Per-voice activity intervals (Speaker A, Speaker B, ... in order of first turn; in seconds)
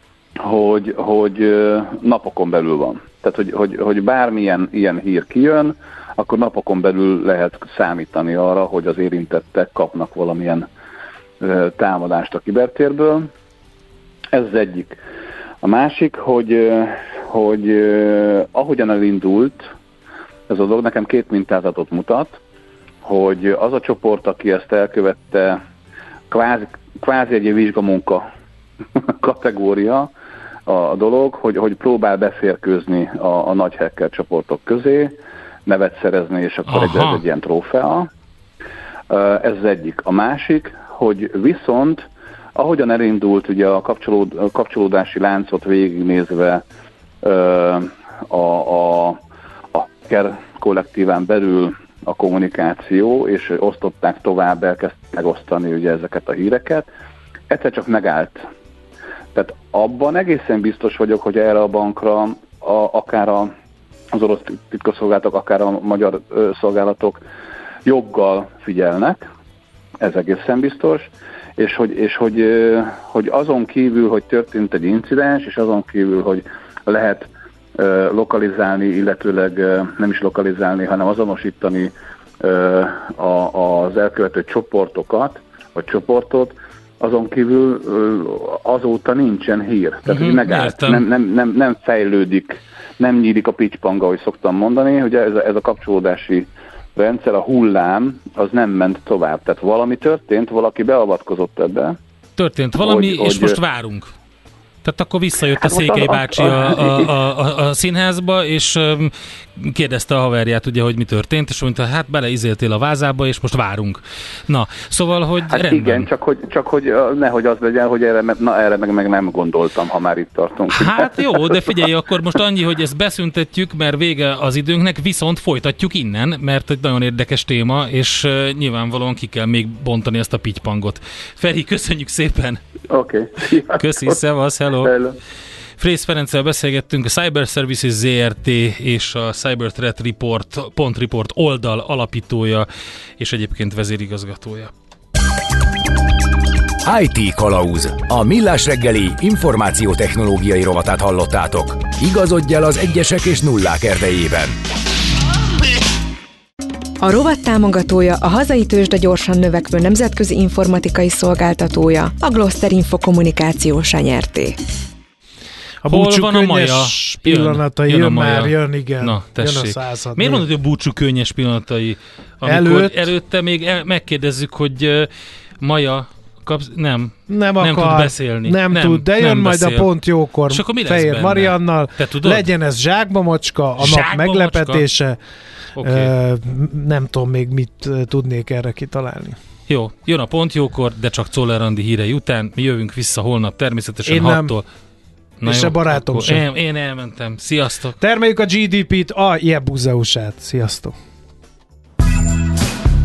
Speaker A: 0.4-10.7, 11.4-13.3, 14.3-15.0, 15.6-19.7, 20.5-22.4, 23.0-25.6, 26.3-28.2, 29.1-30.1, 30.7-38.1, 39.1-46.6, 47.2-49.2, 49.7-56.9, 57.5-58.5, 59.3-63.5, 64.1-67.2, 67.8-69.2, 70.0-102.0, 102.8-103.6, 105.5-107.1, 115.5-121.7, 132.9-134.2, 134.8-135.2
Speaker B: 36.7-37.2, 90.1-91.0, 102.4-104.1, 104.8-116.1, 120.7-132.6, 133.7-134.9, 135.8-142.7, 143.2-144.7, 165.9-175.1, 175.6-179.9, 180.5-182.5, 183.8-184.8, 185.8-186.1, 189.7-194.7, 195.4-198.0
Speaker C: 146.8-154.6
Speaker D: 157.0-164.6
Speaker E: 165.8-170.4, 172.4-173.1, 177.3-185.2, 185.8-189.4, 194.1-194.5, 195.4-196.4, 198.0-200.9